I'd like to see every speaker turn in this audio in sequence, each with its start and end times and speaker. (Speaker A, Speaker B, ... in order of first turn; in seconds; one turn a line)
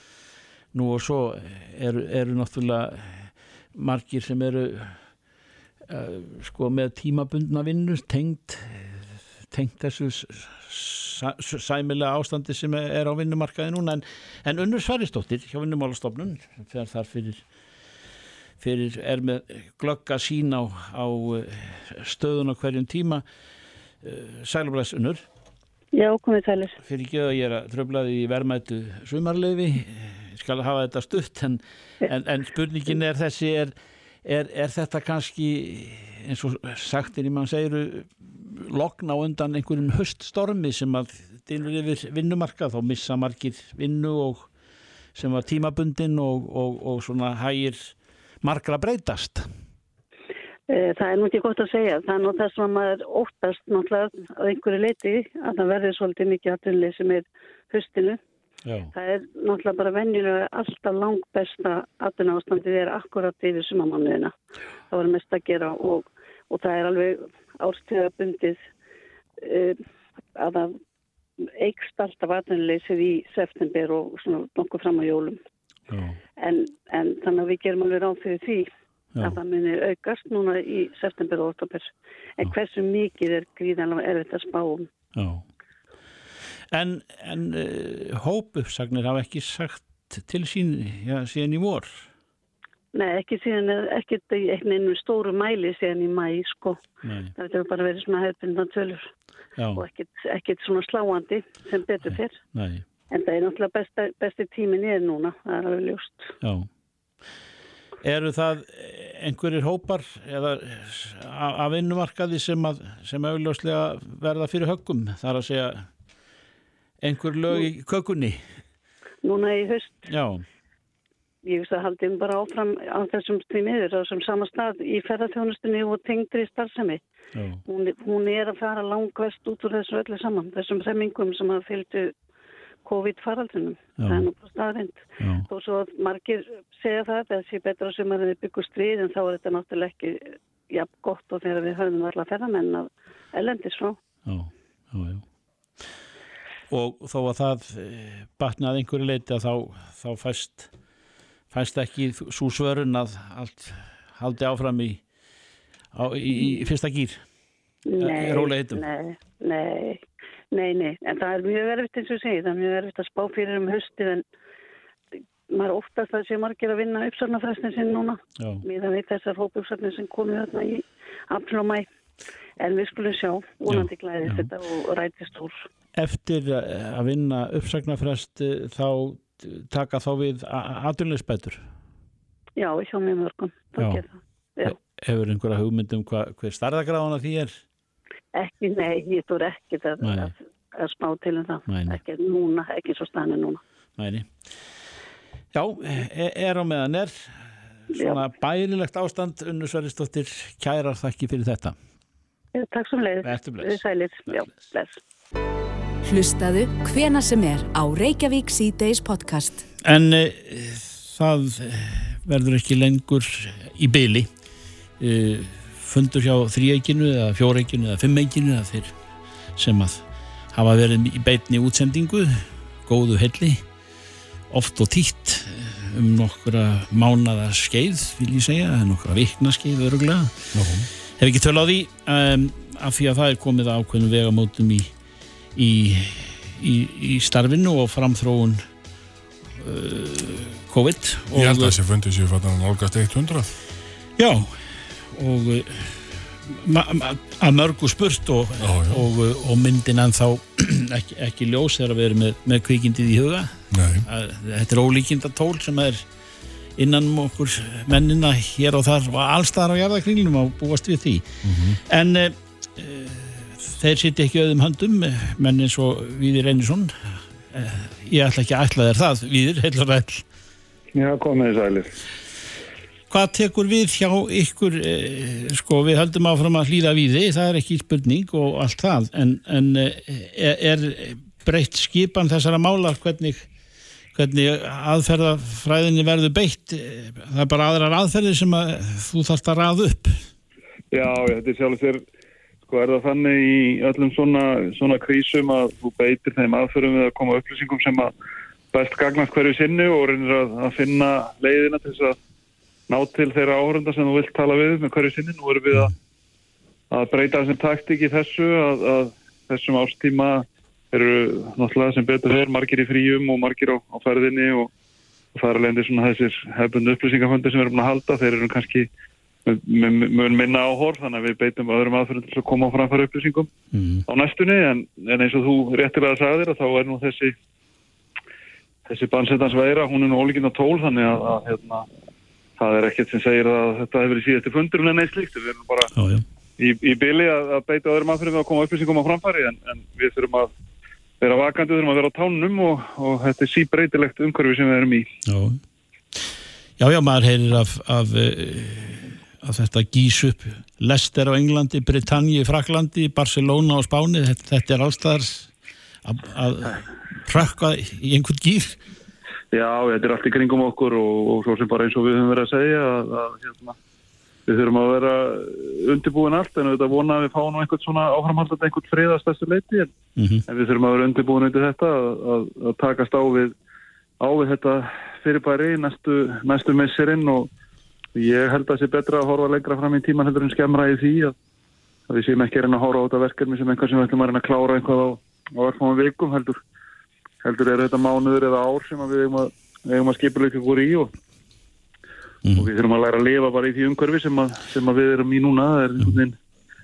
Speaker A: 0.7-5.0
Speaker A: 5.9-17.4
Speaker A: 18.6-23.2
Speaker A: 24.0-25.2
Speaker B: 25.9-26.8
Speaker A: 26.8-44.5
Speaker A: 45.1-49.5
Speaker B: 50.7-58.2
Speaker A: 58.7-58.9
Speaker B: 58.9-64.3
Speaker B: 64.9-68.7
Speaker B: 69.4-69.8
Speaker B: 70.3-70.8
Speaker B: 71.6-75.4
Speaker A: 75.9-76.2
Speaker B: 76.4-84.9
Speaker A: 85.2-85.4
Speaker A: 86.7-92.1
Speaker B: 92.9-96.8
Speaker A: 97.0-97.3
Speaker B: 97.3-99.1
Speaker A: 99.6-99.8
Speaker B: 99.8-102.4
Speaker A: 102.1-102.8
Speaker B: 103.1-106.3
Speaker A: 106.4-106.7
Speaker A: 108.0-115.9
Speaker A: 117.0-118.4
Speaker B: 119.2-120.1
Speaker A: 120.1-120.4
Speaker B: 121.5-127.0
Speaker A: 127.3-127.6
Speaker B: 127.7-132.1
Speaker B: 132.8-144.0
Speaker A: 134.0-134.3
Speaker A: 135.2-135.5
Speaker A: 144.3-145.2
Speaker A: 146.7-150.7
Speaker A: 151.5-155.0
Speaker A: 155.9-157.2
Speaker B: 157.9-164.2
Speaker A: 158.0-158.8
Speaker B: 165.5-171.9
Speaker A: 168.4-168.6
Speaker B: 172.6-175.7
Speaker A: 173.7-174.5
Speaker A: 176.0-181.6
Speaker B: 182.6-184.8
Speaker A: 183.8-184.0
Speaker A: 184.7-187.6
Speaker B: 188.3-193.6
Speaker A: 190.0-190.3
Speaker A: 191.7-192.0
Speaker A: 194.0-194.3
Speaker A: 195.5-197.3
Speaker A: 197.9-201.8
Speaker B: 197.9-198.2
Speaker B: 202.6-205.0
Speaker A: 203.2-204.5
Speaker C: 206.1-209.6
Speaker A: 209.8-214.3
Speaker A: 215.0-218.9
Speaker A: 219.6-223.7
Speaker A: 224.5-230.4
Speaker D: 230.5-230.9
Speaker A: 231.2-234.9
Speaker A: 235.6-238.6
Speaker A: 239.6-241.8
Speaker D: 241.3-243.5
Speaker A: 244.2-256.1
Speaker D: 248.6-249.0
Speaker D: 253.7-254.1
Speaker A: 256.8-261.3
Speaker D: 261.4-261.8
Speaker A: 261.9-266.9
Speaker A: 267.5-270.2
Speaker E: 270.9-271.9
Speaker A: 273.1-283.5
Speaker A: 284.1-290.3
Speaker E: 290.9-292.0
Speaker E: 292.7-298.1
Speaker E: 298.7-302.2
Speaker E: 302.9-305.9
Speaker E: 306.9-314.7
Speaker E: 315.3-318.9
Speaker E: 319.4-323.5
Speaker A: 323.7-324.1
Speaker E: 324.1-327.4
Speaker E: 328.9-331.9
Speaker E: 332.6-335.9
Speaker A: 335.9-336.2
Speaker E: 336.6-340.5
Speaker E: 341.2-345.1
Speaker A: 345.3-345.6
Speaker A: 346.8-355.5
Speaker A: 356.1-358.8
Speaker E: 359.5-363.8
Speaker E: 364.5-369.9
Speaker A: 370.2-370.4
Speaker E: 370.5-373.5
Speaker E: 374.2-377.5
Speaker E: 378.1-381.4
Speaker E: 382.1-386.6
Speaker E: 387.4-391.1
Speaker E: 392.6-396.4